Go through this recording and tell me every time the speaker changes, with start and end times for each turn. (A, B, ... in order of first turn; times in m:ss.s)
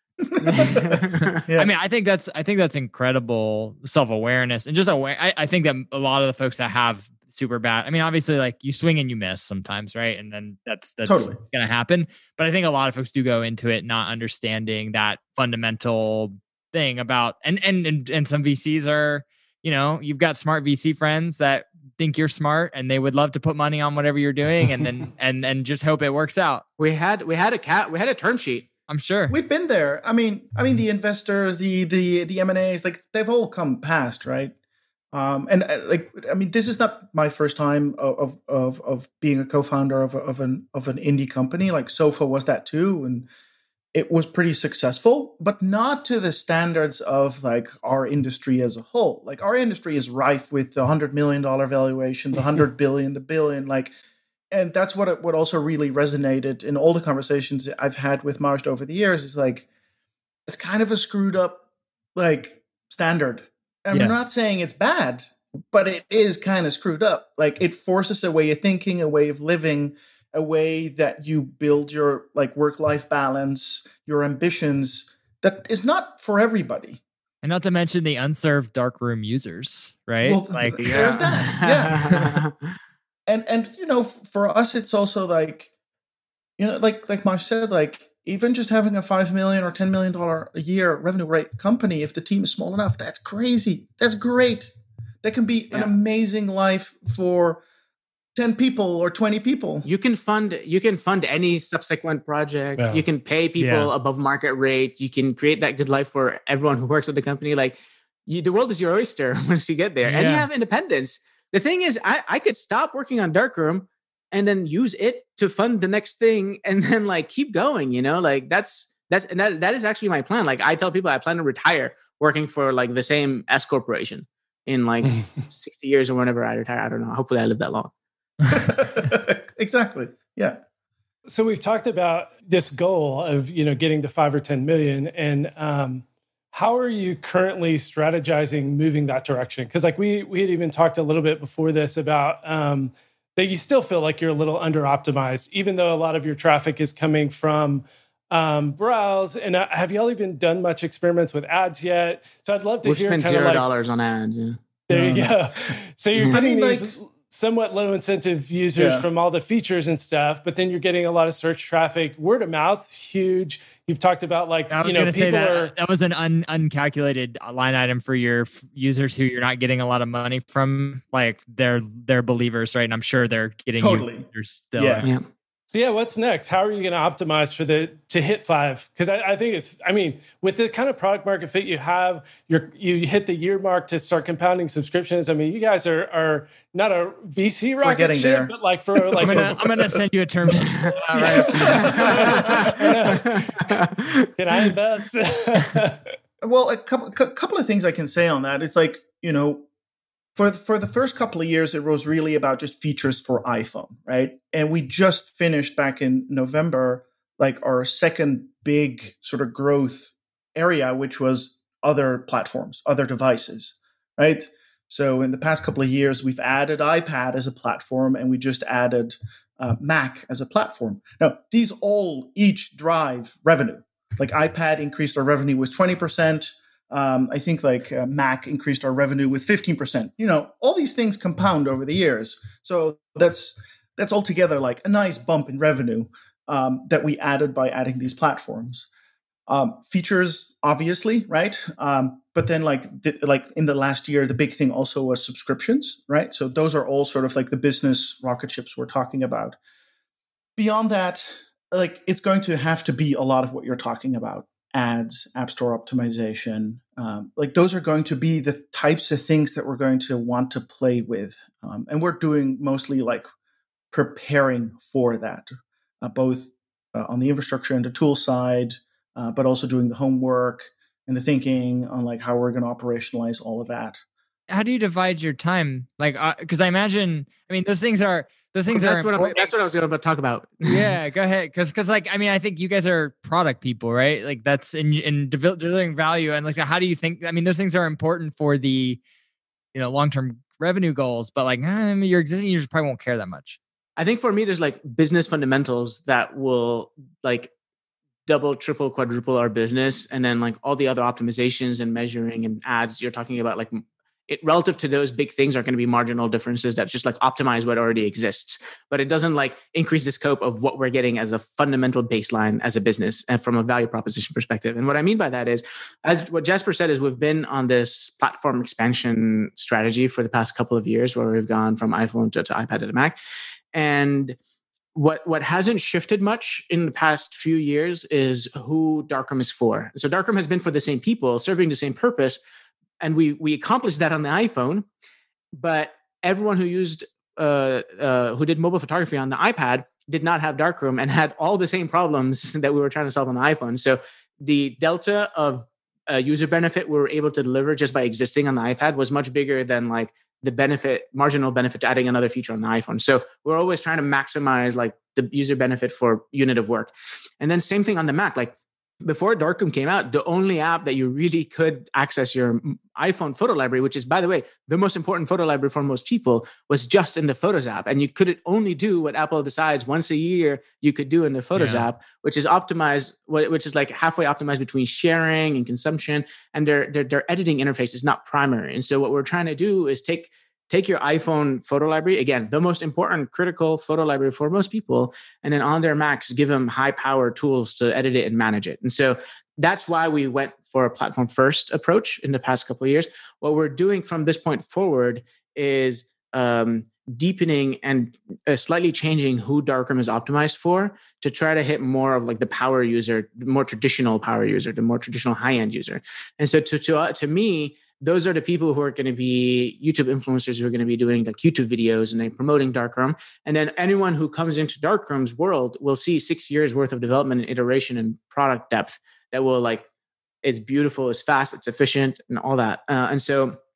0:00.2-0:00.9 A
0:00.4-0:01.4 B
0:01.2-0:26.6 C
0:01.4-0:01.7 A
0:11.0-0:11.4 A
0:26.8-0:28.7 B
0:28.9-0:29.4 C
0:29.3-0:34.6 A
0:35.1-0:43.3 A
0:43.9-0:53.9 A
0:54.5-0:59.7 A
1:00.5-1:01.6 A
1:02.2-1:17.0 A
1:03.9-1:04.2 C
1:17.4-1:20.9 C
1:20.2-1:22.3 A
1:20.8-1:22.5 B
1:23.3-1:25.7 A
1:26.6-1:37.6 A
1:38.4-1:39.9 A
1:39.8-1:47.8 B
1:42.8-1:43.0 D
1:43.6-1:43.9 C
1:48.3-2:07.9 B
1:50.1-1:50.5 C
2:08.5-2:10.6 A
2:11.3-2:33.6 D
2:32.8-2:34.6 B
2:34.9-2:45.7 D
2:34.9-2:35.7 A
2:36.2-2:36.4 B
2:36.3-2:36.9 A
2:38.8-2:39.1 A
2:44.7-2:55.1 C
2:53.8-2:55.1 A
2:55.7-3:09.6 D
3:07.8-3:09.7 A
3:09.2-3:12.1 C
3:11.2-3:13.0 A
3:11.4-3:13.8 D
3:11.6-3:14.6 B
3:14.4-3:16.1 D
3:16.4-3:19.7 A
3:20.4-3:58.9 A
3:59.5-4:09.6 A
4:10.6-4:23.3 A
4:23.9-4:25.5 A
4:26.0-4:34.0 A
4:34.5-4:39.5 C
4:38.7-4:40.9 B
4:40.6-4:49.0 C
4:49.7-4:53.6 C
4:54.0-4:57.5 B
4:58.3-5:23.2 B
5:23.7-5:24.4 B
5:25.0-5:32.4 B
5:33.0-5:34.9 B
5:35.6-6:59.9 B
6:11.6-6:11.8 C
7:00.4-7:03.6 B